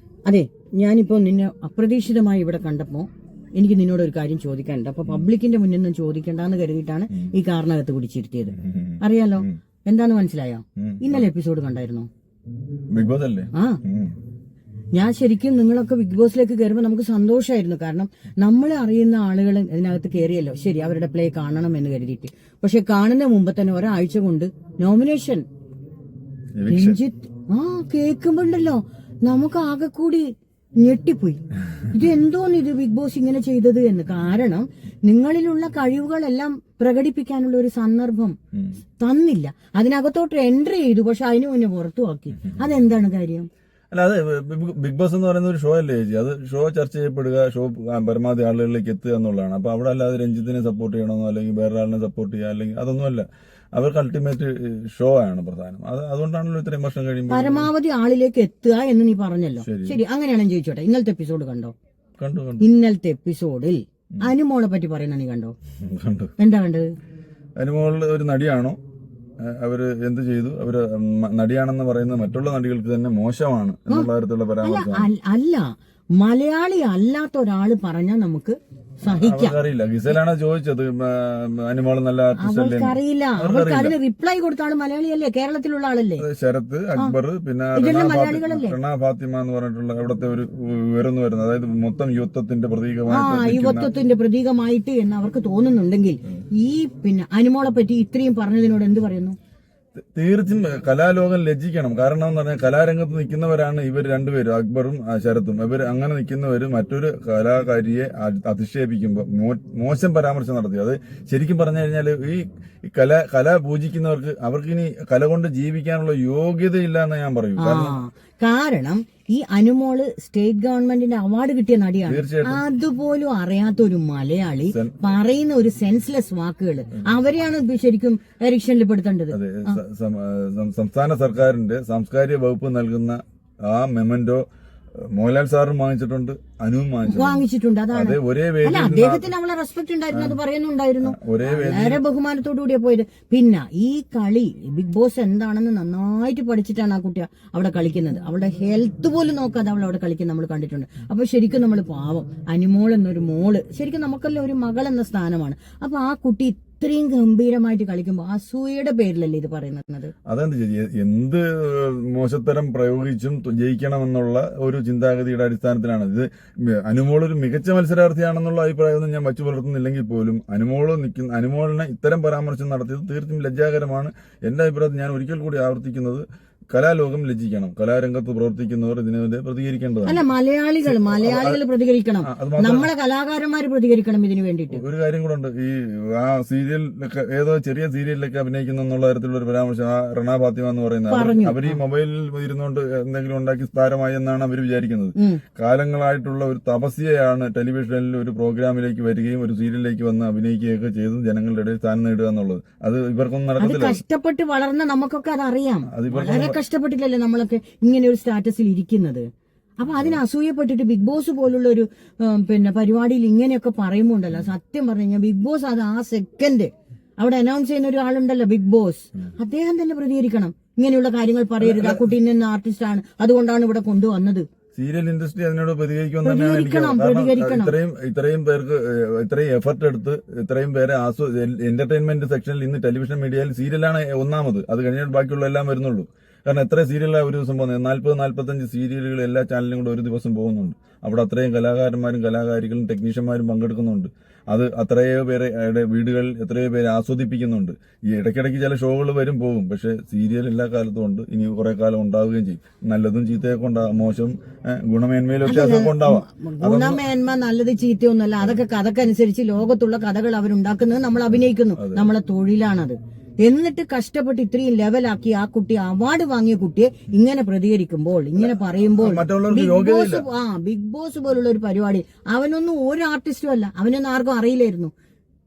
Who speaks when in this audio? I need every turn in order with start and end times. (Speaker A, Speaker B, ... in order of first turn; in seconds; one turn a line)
Speaker A: 0.3-12.1
Speaker B: 8.5-9.6
Speaker B: 10.8-11.3
Speaker B: 12.9-14.1
Speaker A: 13.5-13.8
Speaker A: 14.9-25.4
Speaker B: 26.6-27.0
Speaker A: 26.7-30.3
Speaker A: 30.8-38.4
Speaker A: 39.0-43.5
Speaker B: 43.9-57.7
Speaker A: 57.3-61.7
Speaker B: 59.6-60.0
Speaker B: 62.2-62.7
Speaker A: 62.6-65.5
Speaker B: 65.8-66.3
Speaker A: 66.4-66.9
Speaker B: 67.6-68.8
Speaker B: 69.4-75.1
Speaker A: 74.6-79.6
Speaker B: 79.0-84.0
Speaker A: 82.4-86.2
Speaker B: 86.2-93.9
Speaker A: 87.8-88.8
Speaker A: 93.1-99.4
Speaker B: 100.0-118.0
Speaker A: 117.6-129.8
Speaker B: 122.1-122.6
Speaker B: 124.7-125.0
Speaker B: 129.3-134.4
Speaker B: 135.0-139.3
Speaker A: 137.1-160.1
Speaker B: 140.1-140.4
Speaker B: 141.0-142.0
Speaker B: 160.3-180.2
Speaker A: 180.0-184.8
Speaker B: 180.8-181.6
Speaker B: 182.2-182.9
Speaker B: 184.7-204.0
Speaker A: 191.1-191.8
Speaker A: 195.2-195.4
Speaker A: 203.6-209.2
Speaker B: 205.9-206.6
Speaker A: 209.8-224.4
Speaker B: 221.6-222.1
Speaker B: 224.8-257.1
Speaker A: 226.2-227.7
Speaker A: 255.5-274.9
Speaker B: 261.8-262.1
Speaker B: 268.4-270.2